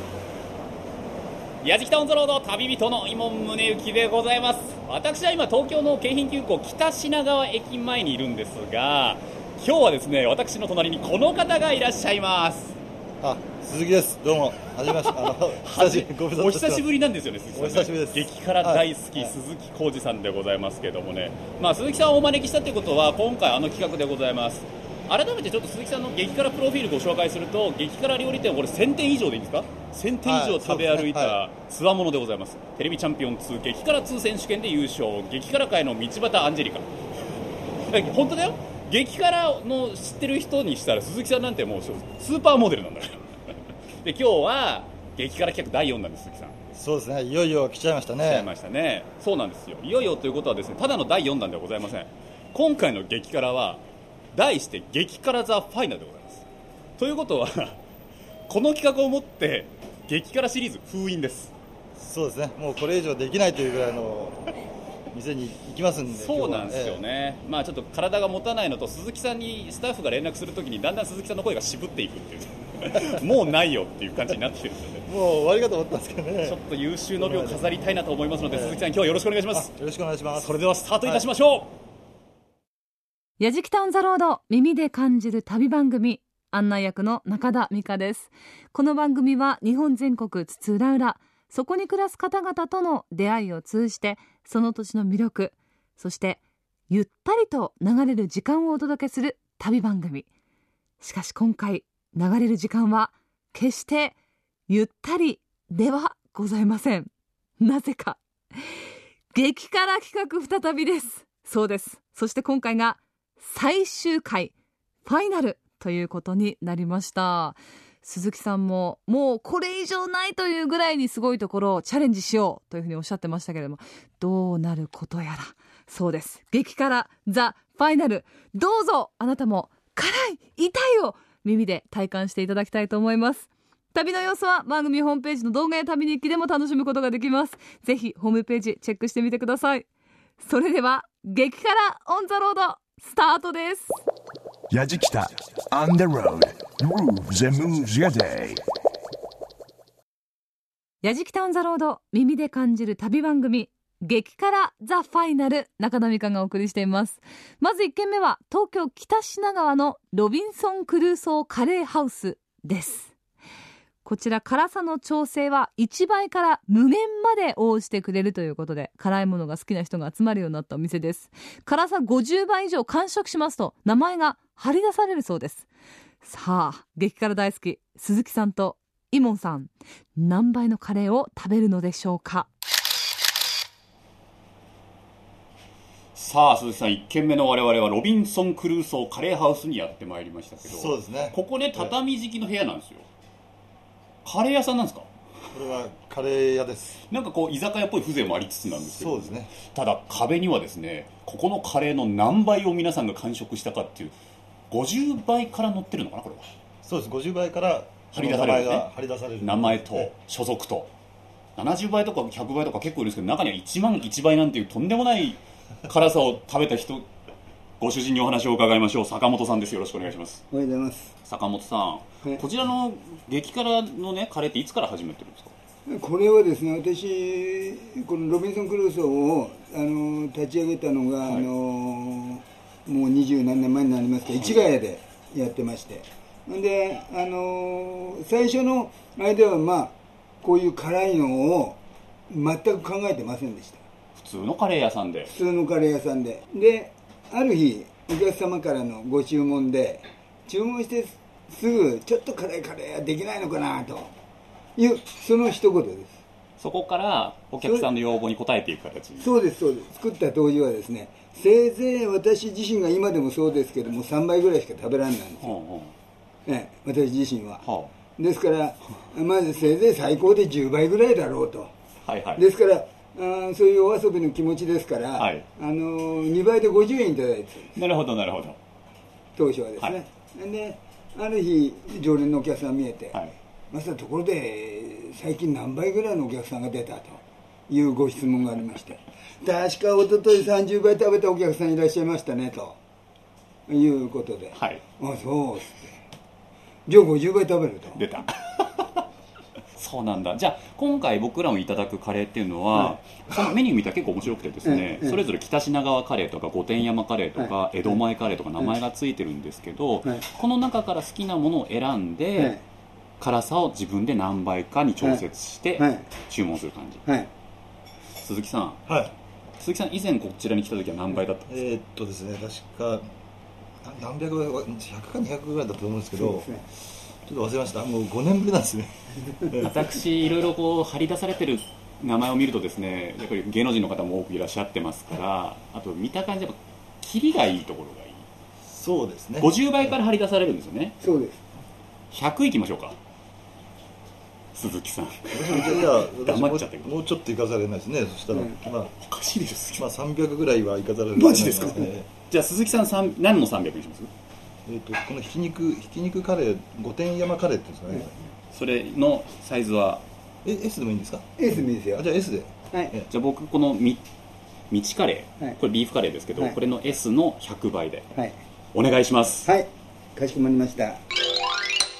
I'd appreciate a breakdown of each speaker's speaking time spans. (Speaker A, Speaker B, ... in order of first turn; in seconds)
Speaker A: 1.6-12.8, 15.1-36.9, 37.9-43.2, 44.0-46.6, 48.2-53.8, 54.3-56.5, 57.0-57.8, 58.5-61.5, 66.1-75.1, 76.5-79.7, 80.4-81.7, 186.2-193.1, 194.2-195.1, 197.1-204.2, 204.7-206.5, 208.1-208.9, 209.4-210.9, 211.6-217.1, 217.8-220.4, 221.3-225.5, 231.2-231.5, 234.3-234.6, 244.2-245.3, 256.6-259.4, 265.4-265.9, 267.6-267.9, 272.1-272.4, 275.2-275.4, 277.8-278.6, 294.5-294.8, 298.0-298.9, 299.8-312.6, 313.2-317.0, 318.2-318.8, 319.6-321.6, 329.6-338.3, 339.4-341.0, 342.1-343.0, 344.6-347.0, 349.0-349.9, 351.1-354.1, 358.5-360.0, 363.1-364.0, 364.7-368.1, 368.7-369.5
Speaker B: 13.2-16.9, 17.5-19.4, 30.2-31.4, 46.8-48.5, 62.0-64.4, 65.1-67.0, 75.1-76.6, 77.2-77.6, 78.5-78.8, 79.5-81.2, 190.6-191.9, 195.5-197.0, 198.9-199.5, 206.8-210.1, 318.9-319.1, 321.5-323.1, 323.8-326.5, 327.2-329.8, 338.6-339.6, 345.3-348.9, 349.8-352.1, 354.7-358.1, 360.4-363.1
Speaker C: 83.4-100.3, 101.0-104.2, 104.7-108.2, 109.3-114.5, 115.0-139.9, 140.4-144.0, 151.0-163.1, 164.1-175.7, 176.2-182.5
Speaker D: 144.7-148.6
Speaker E: 220.5-221.1, 225.9-241.8, 242.3-243.8, 245.3-254.1, 254.8-256.2, 259.2-265.5, 266.5-267.6, 268.2-271.7, 272.4-277.7, 279.4-283.2, 283.7-292.8, 293.7-295.9, 296.9-298.0, 304.6-305.2, 312.4-312.6, 315.8-316.1, 326.2-326.6, 341.0-341.4, 361.4-362.0, 369.4-371.0